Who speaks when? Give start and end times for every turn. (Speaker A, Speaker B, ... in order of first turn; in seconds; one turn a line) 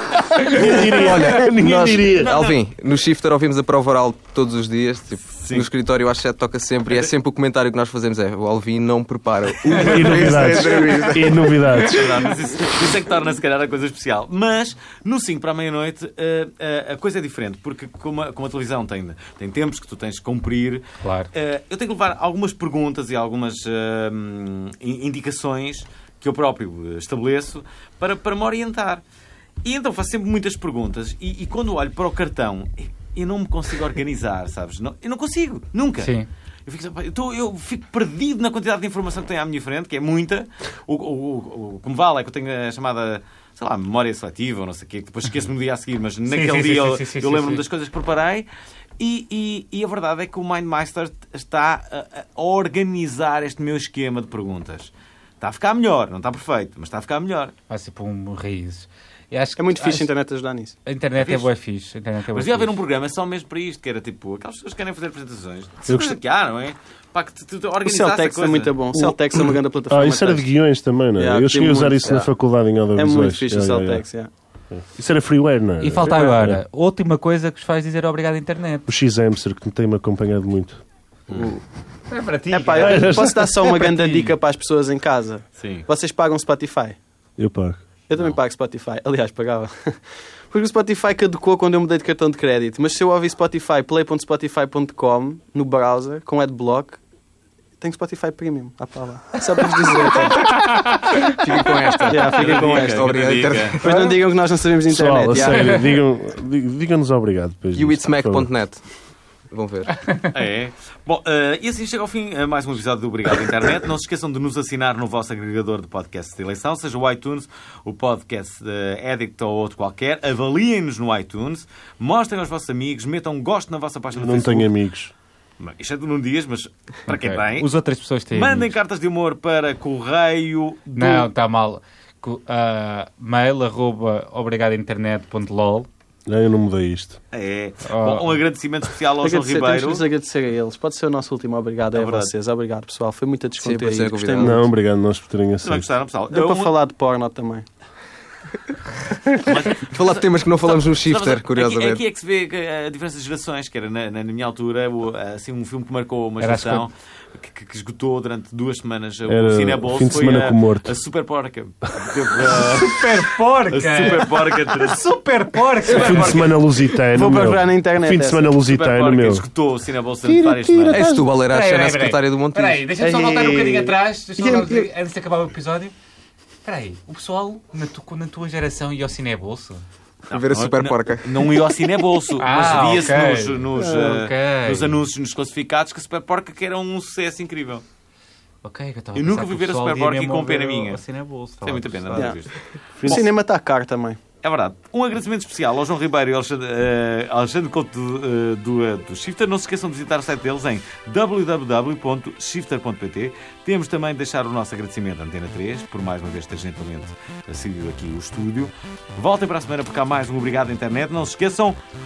Speaker A: 0.5-2.4
Speaker B: 0.5-11.4
Speaker C: 0.6-2.6
Speaker C: 5.4-5.7
Speaker A: 9.6-12.3
Speaker D: 9.7-12.3
Speaker C: 11.8-29.0
Speaker D: 21.0-21.3
Speaker C: 29.6-36.1
Speaker D: 36.0-36.3
Speaker C: 36.7-48.5
Speaker D: 46.3-47.6
Speaker C: 49.0-57.5
Speaker D: 57.7-60.1
Speaker E: 59.6-60.8
Speaker D: 60.9-62.8
Speaker C: 61.2-61.5
Speaker C: 62.3-68.9
Speaker A: 65.9-66.2
Speaker E: 67.8-70.5
Speaker A: 69.9-74.0
Speaker E: 71.2-72.2
Speaker E: 73.0-74.3
Speaker A: 74.7-76.6
Speaker D: 75.8-78.9
Speaker A: 78.9-80.8
Speaker B: 81.3-81.6
Speaker D: 82.1-84.3
Speaker E: 82.5-87.0
Speaker A: 82.8-83.3
Speaker C: 85.6-85.9
Speaker A: 87.4-87.8
Speaker E: 88.1-90.0
Speaker E: 90.5-97.0
Speaker E: 97.8-100.6
Speaker D: 99.8-101.2
Speaker B: 101.4-104.2
Speaker E: 102.1-105.8
Speaker C: 102.2-103.8
Speaker D: 103.8-104.1
Speaker A: 104.9-108.5
Speaker B: 105.3-105.7
Speaker B: 107.8-108.8
Speaker B: 109.5-110.0
Speaker C: 110.3-124.7
Speaker A: 124.1-125.1
Speaker C: 125.6-127.7
Speaker D: 127.1-128.7
Speaker C: 128.3-131.3
Speaker D: 131.0-135.9
Speaker A: 136.3-137.2
Speaker C: 137.3-140.1
Speaker D: 137.9-138.4
Speaker E: 139.2-144.7
Speaker C: 141.9-142.3
Speaker B: 143.6-144.6
Speaker A: 144.4-145.9
Speaker C: 145.6-146.7
Speaker E: 146.3-147.7
Speaker C: 149.4-165.0
Speaker B: 149.7-152.0
Speaker D: 156.4-156.9
Speaker A: 159.3-160.9
Speaker D: 162.7-166.4
Speaker C: 165.8-166.7
Speaker A: 165.9-169.5
Speaker E: 167.1-168.4
Speaker C: 168.6-171.2
Speaker A: 170.2-171.4
Speaker B: 170.9-172.8
Speaker D: 171.5-175.9
Speaker E: 173.0-174.9
Speaker D: 176.7-179.8
Speaker C: 180.3-187.8
Speaker B: 180.3-181.7
Speaker D: 182.4-185.0
Speaker E: 183.8-184.2
Speaker D: 188.6-192.4
Speaker C: 189.2-191.0
Speaker C: 191.6-192.6
Speaker A: 192.9-193.3
Speaker E: 193.1-194.2
Speaker C: 194.4-211.8